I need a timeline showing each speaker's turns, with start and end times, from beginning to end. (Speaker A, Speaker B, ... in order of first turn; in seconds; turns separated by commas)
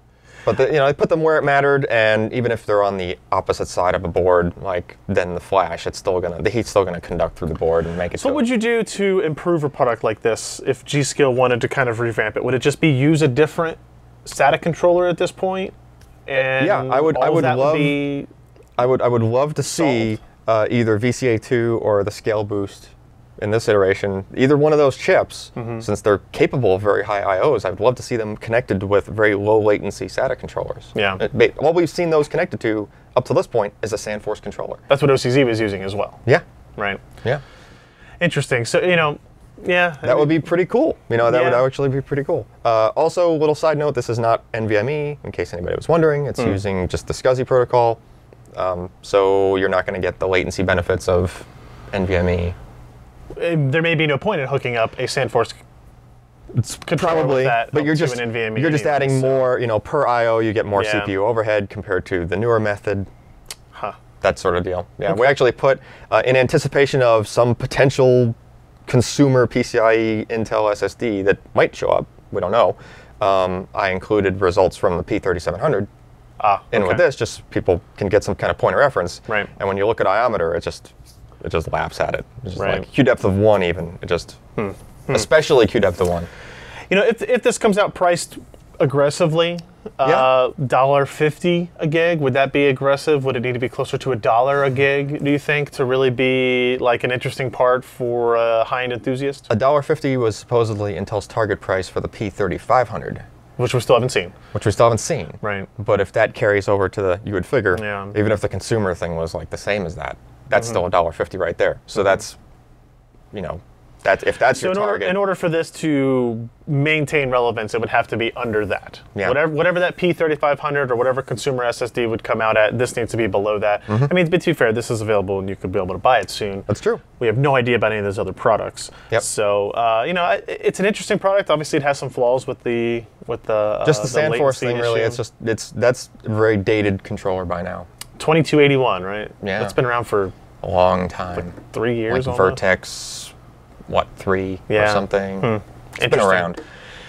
Speaker A: 0.5-8.4, Speaker B: 8.2-15.7, Speaker B: 16.2-18.3, Speaker A: 16.4-18.0, Speaker A: 18.8-34.8, Speaker B: 19.6-20.1, Speaker B: 25.6-25.9, Speaker B: 30.9-31.2, Speaker B: 34.9-36.2, Speaker B: 38.2-40.5, Speaker A: 40.0-48.0, Speaker B: 41.2-41.7, Speaker A: 48.5-52.5, Speaker B: 53.3-55.6, Speaker A: 56.5-63.1, Speaker B: 56.8-59.5, Speaker B: 60.7-61.1, Speaker A: 64.2-68.3, Speaker B: 65.1-65.4, Speaker A: 68.9-75.9, Speaker B: 76.4-77.0, Speaker A: 76.7-84.4, Speaker B: 82.5-82.8, Speaker B: 84.6-85.3, Speaker A: 85.1-86.3, Speaker B: 86.9-99.5, Speaker A: 90.0-90.3, Speaker A: 99.5-103.2, Speaker B: 103.6-104.3, Speaker A: 104.5-112.4, Speaker B: 105.4-105.7, Speaker B: 107.7-108.2, Speaker A: 113.3-115.2, Speaker B: 114.5-135.2, Speaker A: 126.7-127.0, Speaker A: 133.8-137.9, Speaker B: 138.2-140.3, Speaker A: 139.4-139.8, Speaker A: 140.6-141.6, Speaker B: 141.5-142.6, Speaker A: 142.1-143.3, Speaker A: 143.9-146.6, Speaker B: 144.7-146.5